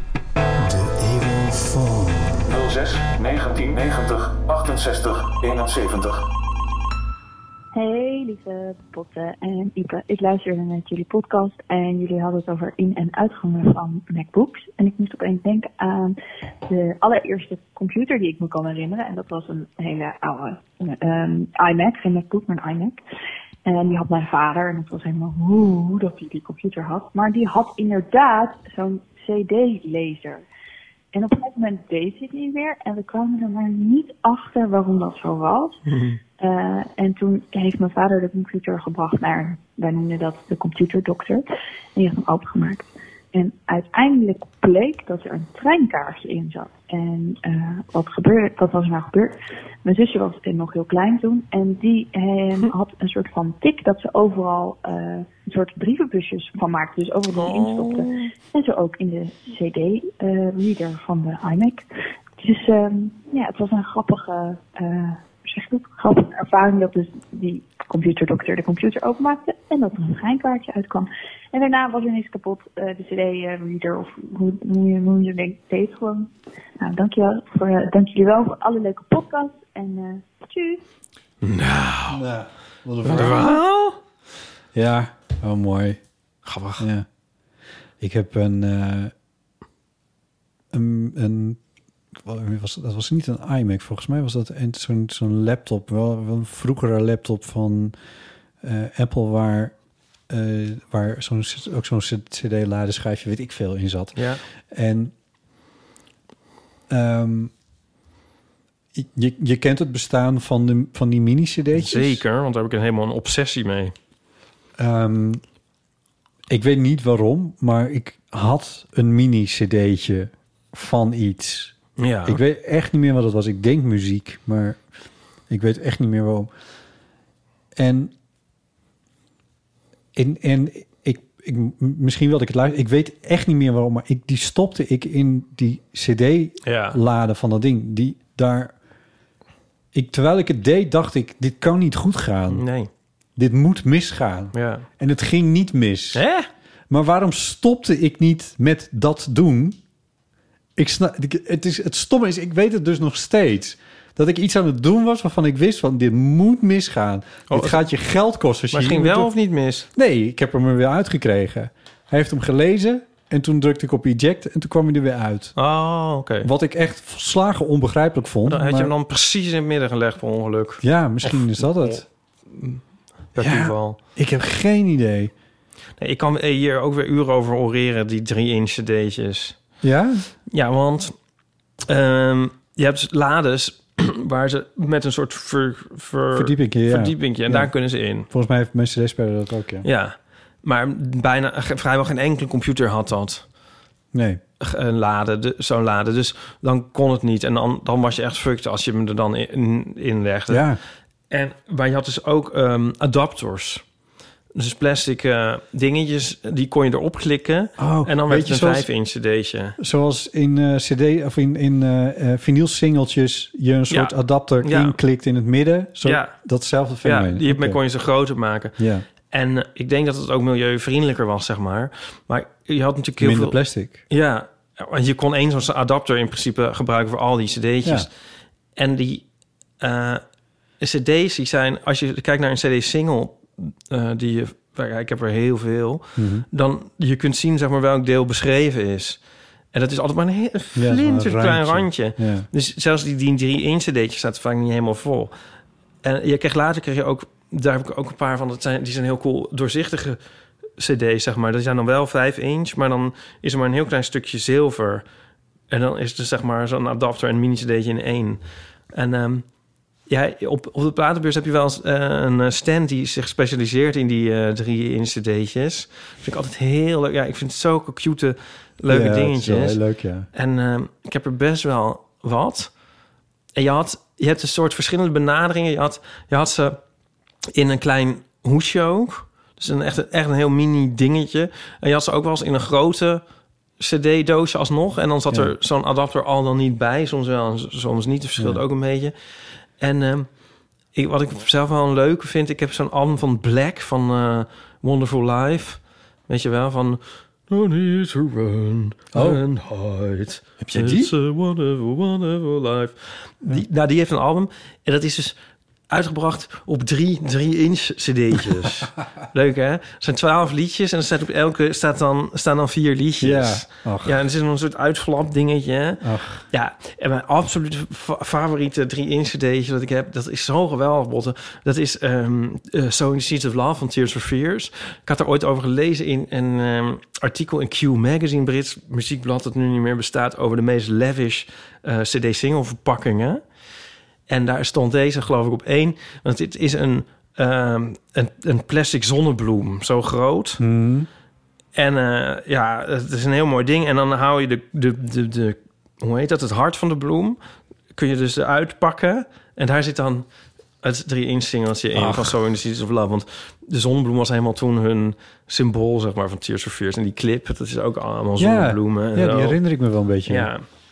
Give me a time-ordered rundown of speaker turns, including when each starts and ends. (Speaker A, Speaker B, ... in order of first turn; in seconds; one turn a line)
Speaker A: 0.6-2.4
Speaker B: 2.5-6.2
Speaker C: 7.7-23.0
Speaker C: 23.7-30.4
Speaker C: 31.1-35.8
Speaker D: 35.9-36.2
Speaker C: 36.4-61.9
Speaker D: 57.3-58.3
Speaker C: 62.4-80.8
Speaker D: 81.4-82.2
Speaker A: 82.1-83.6
Speaker D: 83.0-84.0
Speaker A: 84.7-86.0
Speaker D: 86.5-86.9
Speaker A: 86.8-87.1
Speaker A: 88.0-89.1
Speaker A: 90.7-91.6
Speaker A: 92.2-98.0
Speaker A: 98.6-99.8
Speaker A: 100.3-105.1
Speaker D: 104.2-104.4
Speaker A: 106.9-107.5
Speaker A: 108.9-112.2
Speaker D: 111.7-113.9
Speaker A: 114.8-115.4
Speaker A: 116.5-124.8
Speaker D: 122.0-122.4
Speaker A: 125.5-126.5
Speaker A: 127.8-128.1
Speaker A: 130.2-138.7
Speaker D: 136.7-137.0
Speaker A: 139.9-142.7
Speaker D: 142.5-142.9
Speaker A: 143.4-146.2
Speaker D: 144.5-144.9
Speaker D: 146.1-146.5
Speaker A: 146.9-149.8
Speaker A: 150.8-159.3
Speaker D: 157.5-157.8
Speaker D: 158.7-159.9
Speaker A: 159.9-165.6
Speaker D: 165.6-166.5
Speaker A: 166.4-168.9
Speaker D: 168.5-172.8
Speaker A: 170.8-172.1
Speaker D: 173.3-174.0
Speaker A: 173.4-175.3
Speaker D: 176.0-179.6
Speaker A: 179.8-180.3
Speaker D: 180.5-181.2
Speaker D: 181.9-188.3
Speaker A: 186.3-189.9
Speaker D: 189.8-193.4
Speaker A: 194.1-194.4
Speaker D: 194.6-200.7
Speaker A: 200.5-200.8
Speaker D: 201.3-203.8
Speaker D: 204.6-209.8
Speaker A: 207.8-208.9
Speaker A: 209.8-217.8
Speaker D: 213.9-215.0
Speaker D: 216.0-216.3
Speaker D: 217.0-218.8
Speaker A: 218.8-219.1
Speaker D: 219.3-228.1
Speaker A: 223.2-224.0
Speaker D: 228.8-229.2
Speaker D: 229.8-230.2
Speaker D: 230.8-239.2
Speaker A: 236.2-236.5
Speaker D: 239.7-245.3
Speaker A: 240.8-242.5
Speaker D: 246.0-250.2
Speaker D: 250.8-255.1
Speaker D: 255.7-259.5
Speaker D: 260.1-269.8
Speaker A: 268.9-270.3
Speaker D: 270.3-272.7
Speaker D: 273.6-276.8
Speaker D: 277.5-283.2
Speaker D: 283.8-289.1
Speaker D: 289.8-290.3
Speaker D: 290.9-305.4
Speaker A: 299.1-299.4
Speaker A: 300.6-301.1
Speaker D: 305.9-333.4
Speaker A: 313.2-314.2
Speaker A: 316.0-316.4
Speaker D: 334.3-340.6
Speaker A: 340.6-341.1
Speaker D: 341.8-347.4
Speaker D: 347.9-350.3
Speaker D: 350.8-359.6
Speaker A: 351.9-352.4
Speaker A: 358.4-360.5
Speaker D: 360.3-360.6